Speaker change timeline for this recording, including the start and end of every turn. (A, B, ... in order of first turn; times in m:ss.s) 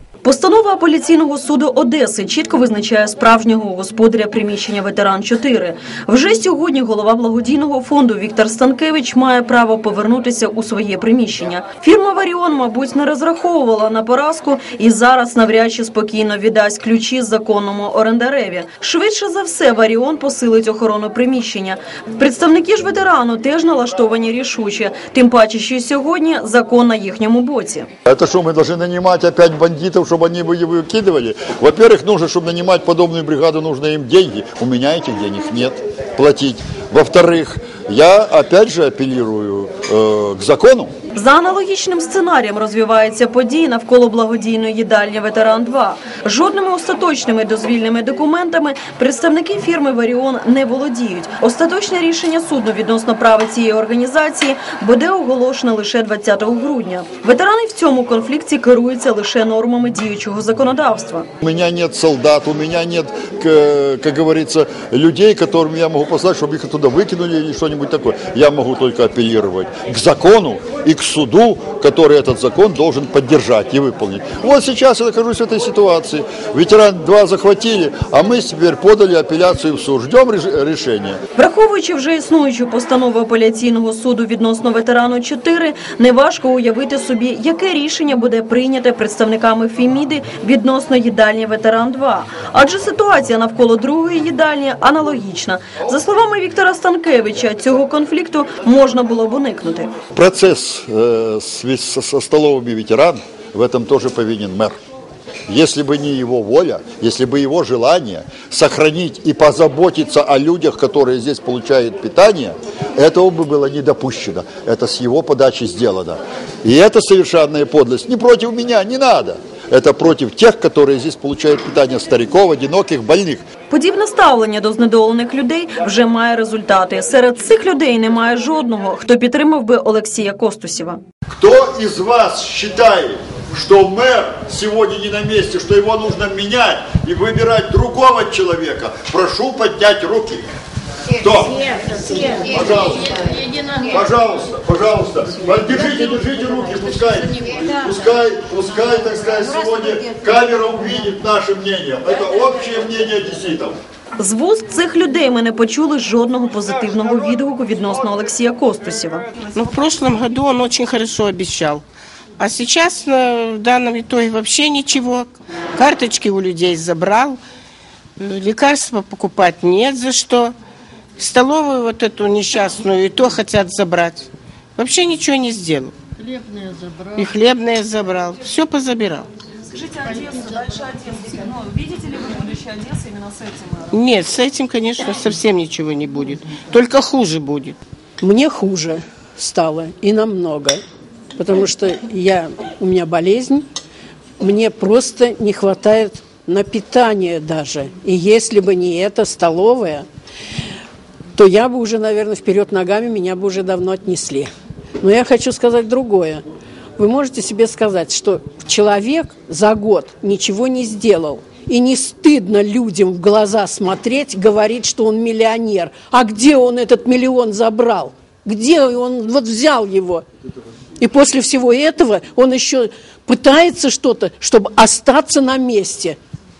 0:00.2-0:27.9 A
0:28.0-0:40.9 B
0:41.1-1:01.3 A
1:01.4-1:21.2 B
1:21.4-1:39.9 A
1:40.1-1:44.7 B
1:45.5-2:03.4 B
2:03.7-2:11.0 A
2:11.3-2:20.5 B
2:21.1-2:21.6 B
2:21.6-2:22.4 C
2:22.4-2:23.3 B
2:23.8-2:33.8 B
2:34.2-2:39.3 A
2:39.5-2:41.8 C
2:42.4-2:47.4 C
2:48.2-2:50.5 C
2:51.2-2:59.3 C
2:59.7-3:03.9 A
3:03.9-3:07.8 C
3:08.2-3:10.8 D
3:11.3-3:13.6 D
3:14.4-3:20.0 D
3:21.3-3:26.4 D
3:27.0-3:40.2 D
3:41.0-3:46.2 D